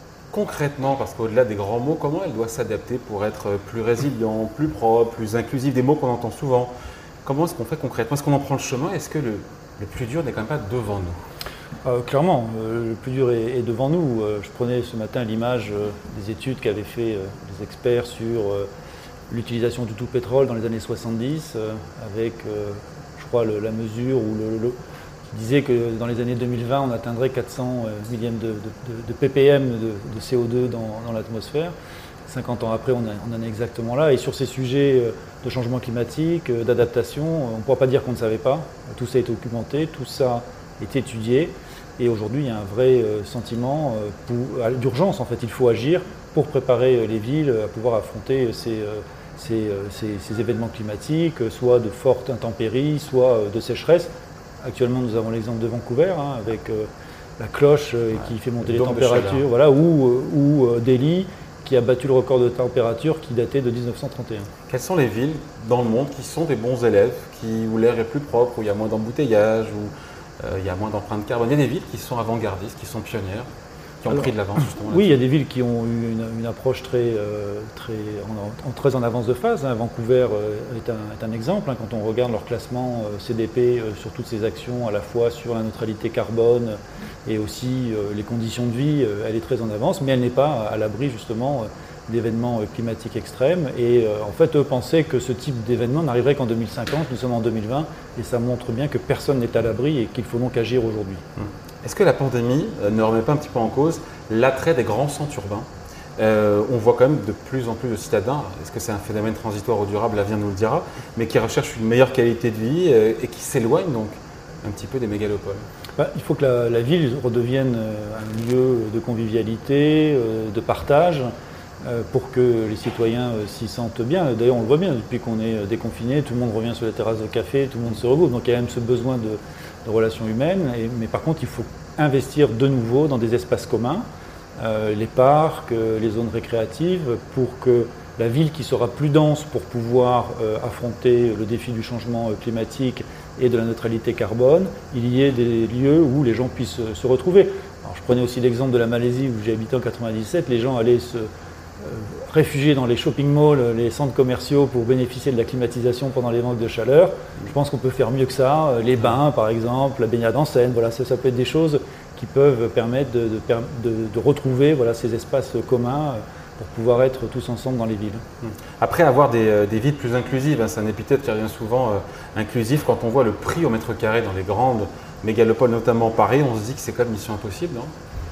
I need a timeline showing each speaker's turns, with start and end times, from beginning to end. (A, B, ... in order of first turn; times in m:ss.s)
0:00.3-0:06.7 A
0:07.2-0:11.2 A
0:11.8-0:18.7 B
0:19.3-0:24.8 B
0:25.3-0:31.7 B
0:32.2-0:56.9 B
0:57.4-1:04.5 B
0:58.6-0:59.4 A
1:04.7-1:13.4 A
1:14.0-1:15.2 A
1:14.8-1:41.2 B
1:41.4-1:55.6 A
1:56.0-2:01.3 B
2:01.8-2:14.0 B
2:14.6-2:31.3 B
2:31.8-2:48.2 B
2:48.4-2:57.9 A